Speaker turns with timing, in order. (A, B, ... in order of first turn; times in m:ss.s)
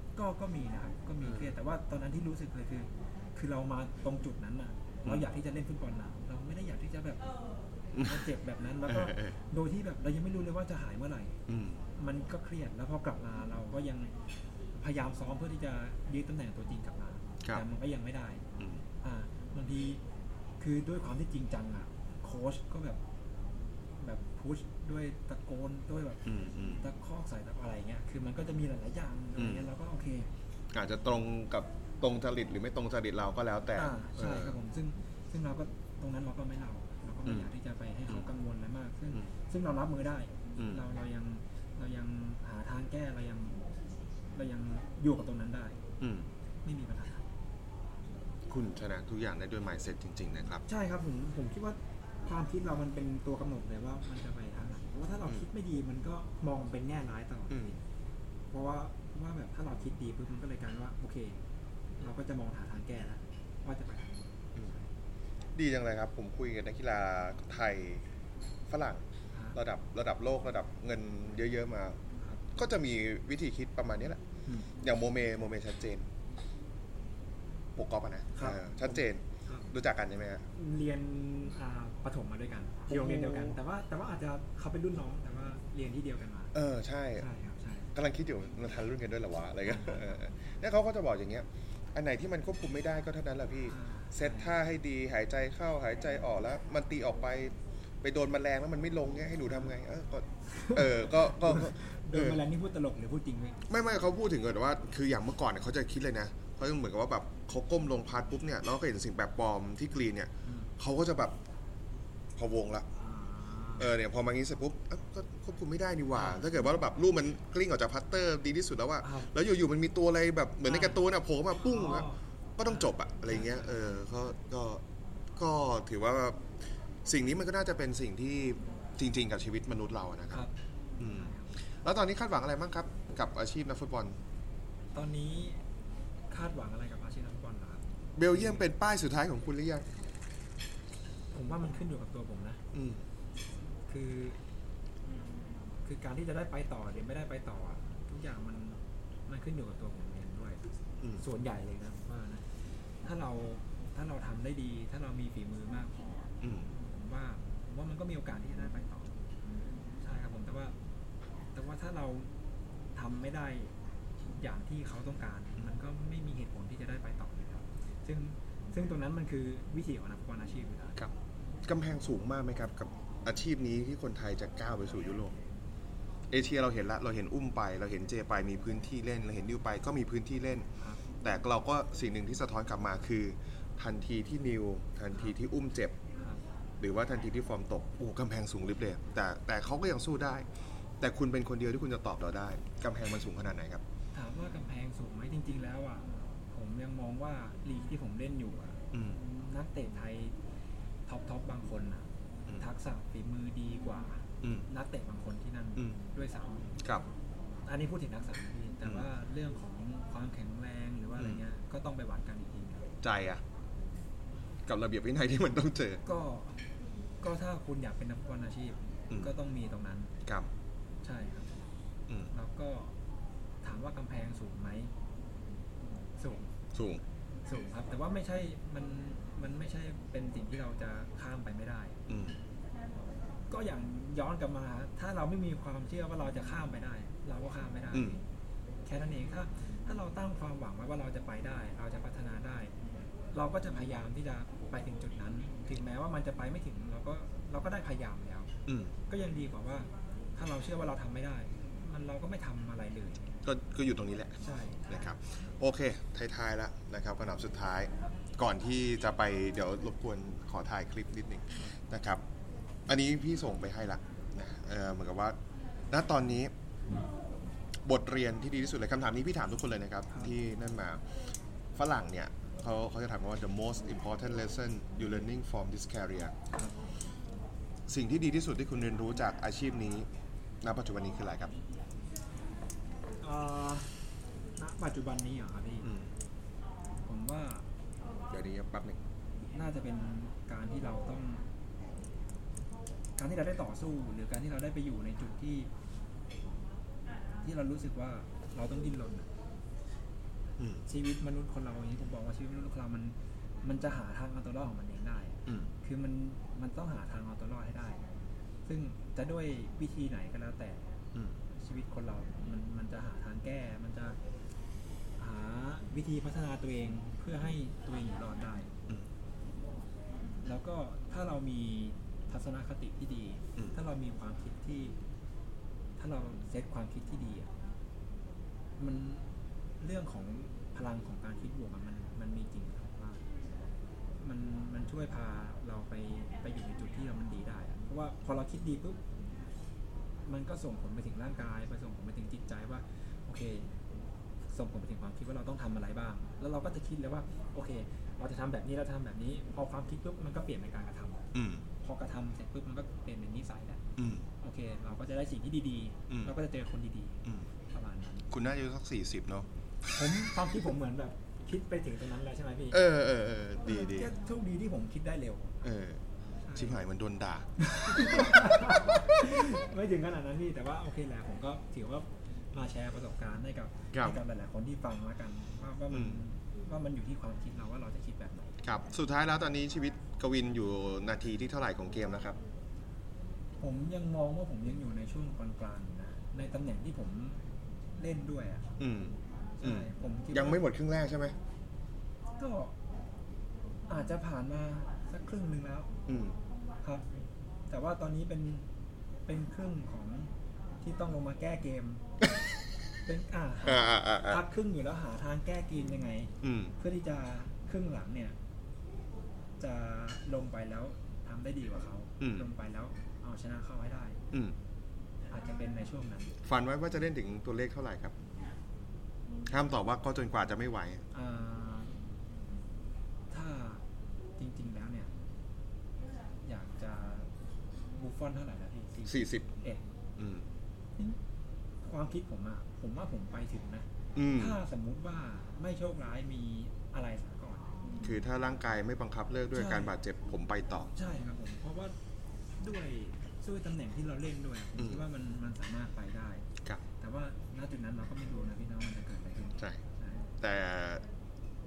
0:00.2-0:07.3 A
0:01.2-0:01.5 B
0:07.9-0:08.2 B
0:08.0-0:11.4 A
0:08.9-0:09.3 B
0:11.5-0:11.8 B
0:12.0-0:14.1 A
0:14.7-0:18.4 A
0:19.0-0:20.0 A
0:20.6-0:23.0 A
0:24.0-0:30.3 A
0:26.2-0:26.8 B
0:29.4-0:29.7 B
0:30.7-0:34.6 B
0:33.8-0:43.6 A
0:37.2-0:37.5 B
0:40.6-0:40.8 B
0:44.3-0:45.8 A
0:46.0-0:46.3 B
0:46.6-0:47.2 A
0:48.5-0:50.6 B
0:50.7-0:57.8 A
0:57.5-0:57.8 B
0:58.5-1:01.4 A
1:02.0-1:04.2 A
1:05.5-1:08.1 B
1:08.7-1:09.0 B
1:09.5-1:12.0 B
1:12.5-1:14.2 B
1:14.7-1:16.1 B
1:17.8-1:20.4 B
1:18.4-1:19.7 A
1:20.5-1:26.5 A
1:22.9-1:23.6 B
1:26.5-1:27.3 B
1:27.2-1:27.9 A
1:27.9-1:42.4 B
1:29.6-1:30.2 A
1:33.7-1:34.5 A
1:40.5-1:43.6 A
1:43.7-1:51.4 B
1:50.4-1:50.7 A
1:52.4-1:52.8 B
1:53.0-1:53.9 A
1:53.8-2:04.8 B
1:56.2-1:56.5 A
1:59.0-1:59.3 A
2:00.6-2:01.0 A
2:01.6-2:04.0 A
2:05.4-2:06.5 B
2:07.0-2:10.4 B
2:10.3-2:11.5 A
2:11.0-2:14.2 B
2:14.9-2:15.6 A
2:16.3-2:18.7 A
2:18.2-2:19.9 B
2:21.3-2:22.6 A
2:22.7-2:23.0 B
2:23.9-2:24.4 A
2:25.8-2:30.6 A
2:31.2-2:39.1 A
2:36.4-2:36.7 B
2:40.0-2:40.7 A
2:41.5-2:42.3 A
2:43.0-2:43.7 A
2:44.3-2:51.0 A
2:51.6-2:55.4 B
2:56.3-3:00.7 B
3:01.2-3:06.0 B
3:06.2-3:06.4 A
3:06.8-3:13.8 B
3:14.1-3:20.3 A
3:18.9-3:19.2 B
3:21.1-3:26.8 A
3:27.6-3:32.9 A
3:33.0-3:33.4 B
3:34.7-3:36.0 B
3:36.0-3:36.6 A
3:37.2-3:40.1 A
3:41.0-3:41.5 A
3:42.3-3:42.9 A
3:43.6-3:44.9 A
3:46.2-3:46.5 A
3:46.7-3:47.0 B
3:47.4-3:52.0 A
3:52.1-3:52.4 B
3:53.5-3:58.2 A
3:57.9-3:58.2 B
3:58.8-4:02.7 A
4:03.3-4:08.5 A
4:08.7-4:08.9 B
4:09.1-4:13.3 A
4:13.4-4:22.2 B
4:14.4-4:14.8 A
4:22.9-4:25.4 B
4:25.9-4:26.5 B
4:27.8-4:31.1 B
4:31.7-4:36.3 B
4:36.5-4:36.9 A
4:37.9-4:40.0 B
4:40.6-4:41.5 B
4:43.2-4:43.9 A
4:44.6-4:45.9 A
4:45.8-4:46.1 B
4:47.0-4:47.6 A
4:48.3-4:49.0 B
4:49.5-4:51.4 A
4:53.2-4:55.7 A
4:57.4-4:59.3 A
5:00.8-5:08.1 A
5:08.6-5:11.0 A
5:11.5-5:14.2 A
5:15.2-5:18.7 A
5:20.4-5:24.9 A
5:26.0-5:27.5 A
5:28.8-5:29.2 A
5:29.8-5:33.2 A
5:34.2-5:39.0 A
5:40.2-5:43.7 A
5:44.5-5:51.3 A
5:51.3-5:51.6 B
5:51.8-5:53.8 A
5:54.0-5:54.2 B
5:54.4-5:58.3 A
5:56.1-5:56.3 B
5:58.3-5:59.9 B
5:59.9-6:02.8 A
6:02.7-6:04.1 B
6:03.6-6:05.6 A
6:05.6-6:06.0 B
6:06.4-6:06.8 A
6:06.5-6:09.4 B
6:07.6-6:18.6 A
6:13.9-6:14.2 B
6:15.9-6:16.2 B
6:18.6-6:22.4 B
6:23.6-6:27.4 A
6:28.0-6:28.7 A
6:28.8-6:31.4 B
6:29.6-6:30.6 A
6:32.4-6:32.7 A
6:33.9-6:35.9 A
6:36.1-6:36.4 B
6:37.7-6:38.7 A
6:39.3-6:40.3 A
6:40.8-6:42.0 A
6:43.0-6:48.4 A
6:43.6-6:44.4 B
6:46.4-6:46.7 B
6:49.6-6:54.2 A
6:52.2-6:52.5 B
6:55.3-6:56.3 A
6:56.4-6:58.1 B
6:59.4-7:01.0 B
7:01.1-7:01.9 A
7:03.3-7:03.8 A
7:04.4-7:05.1 A
7:06.4-7:07.3 A
7:08.0-7:09.8 A
7:09.0-7:09.5 B
7:10.2-7:10.4 B
7:11.8-7:18.1 A
7:14.1-7:14.6 B
7:18.0-7:20.9 B
7:19.5-7:19.9 A
7:20.9-7:21.9 A
7:22.6-7:26.4 A
7:24.8-7:25.0 B
7:27.0-7:30.3 A
7:30.4-7:31.0 B